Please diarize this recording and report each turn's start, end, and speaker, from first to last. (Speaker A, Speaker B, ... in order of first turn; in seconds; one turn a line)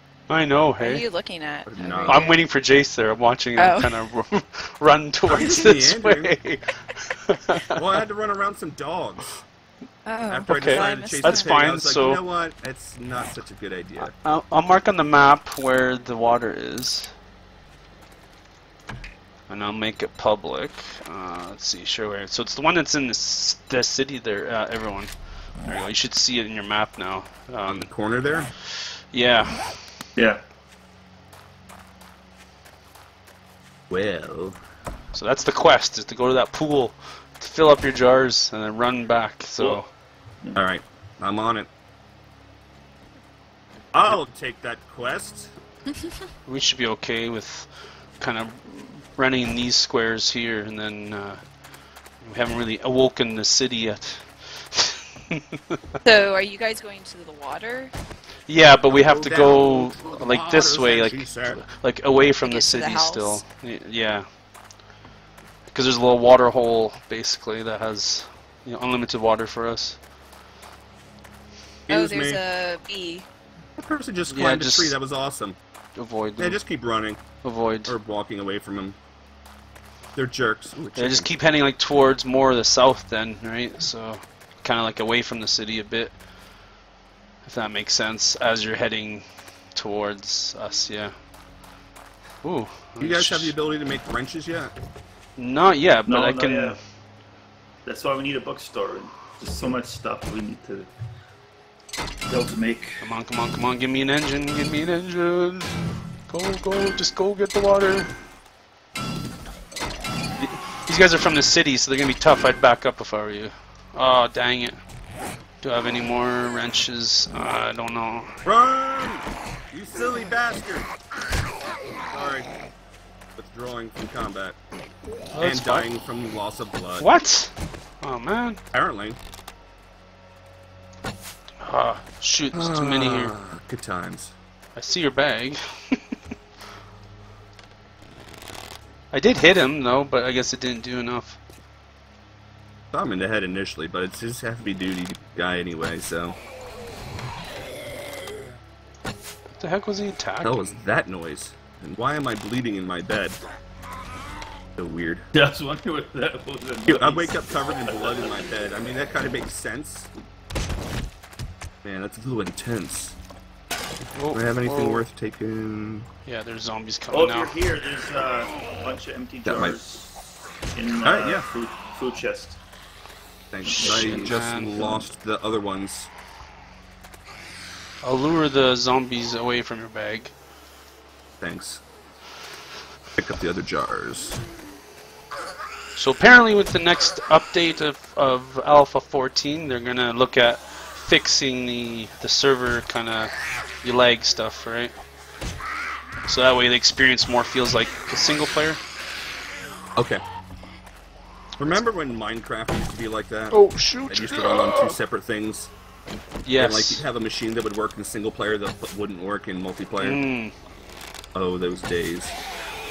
Speaker A: 0.3-1.0
Speaker B: 0.8-2.4
Speaker C: 1.6-2.3
Speaker A: 2.0-7.8
Speaker B: 3.6-4.0
Speaker C: 5.3-6.3
Speaker C: 7.7-9.3
Speaker B: 10.1-11.6
Speaker C: 10.3-14.2
Speaker A: 10.5-12.2
Speaker A: 14.0-17.1
Speaker A: 19.5-25.1
Speaker A: 25.6-27.9
Speaker C: 27.6-28.5
Speaker A: 28.7-29.8
Speaker D: 30.1-30.4
Speaker C: 33.9-34.6
Speaker A: 35.1-39.9
Speaker C: 40.5-41.7
Speaker C: 43.9-45.5
Speaker A: 46.5-47.7
Speaker A: 48.2-51.4
Speaker A: 52.2-56.0
Speaker B: 56.0-57.9
Speaker A: 58.5-64.3
Speaker C: 58.9-61.6
Speaker B: 62.4-63.4
Speaker A: 65.7-70.0
Speaker C: 71.9-72.4
Speaker B: 71.9-73.3
Speaker C: 73.8-75.6
Speaker A: 74.3-74.9
Speaker A: 76.0-76.6
Speaker C: 76.4-77.2
Speaker A: 77.4-78.0
Speaker C: 77.8-79.0
Speaker C: 80.1-81.3
Speaker A: 80.9-86.1
Speaker A: 87.4-91.1
Speaker A: 92.4-93.5
Speaker C: 93.0-94.7
Speaker A: 95.4-96.8
Speaker D: 96.0-96.8
Speaker D: 97.8-100.9
Speaker D: 102.3-103.0
Speaker A: 103.0-105.7
Speaker A: 106.3-108.1
Speaker A: 110.4-114.8
Speaker A: 115.6-118.3
Speaker C: 118.4-120.9
Speaker C: 122.1-122.5
Speaker C: 123.3-124.6
Speaker A: 125.3-125.9
Speaker C: 125.4-127.1
Speaker A: 127.0-128.6
Speaker C: 128.7-129.2
Speaker A: 131.6-133.3
Speaker C: 132.5-134.3
Speaker A: 134.8-136.2
Speaker A: 139.1-141.4
Speaker C: 142.9-146.4
Speaker A: 149.5-150.7
Speaker C: 150.4-153.4
Speaker C: 154.8-155.3
Speaker D: 155.3-158.4
Speaker C: 156.8-160.1
Speaker C: 161.8-163.2
Speaker A: 164.1-165.0
Speaker C: 164.3-166.1
Speaker A: 166.2-167.5
Speaker D: 167.1-170.1
Speaker C: 169.4-169.8
Speaker D: 170.7-172.6
Speaker C: 171.0-171.5
Speaker C: 173.5-176.1
Speaker D: 173.6-174.3
Speaker A: 173.8-175.0
Speaker A: 178.0-180.3
Speaker C: 181.4-181.8
Speaker C: 183.2-184.4
Speaker A: 185.9-194.9
Speaker A: 196.3-198.8
Speaker C: 199.9-200.2
Speaker C: 201.6-205.7
Speaker A: 203.5-205.0
Speaker A: 206.4-207.0
Speaker C: 206.6-210.2
Speaker A: 210.0-210.5
Speaker C: 211.3-212.3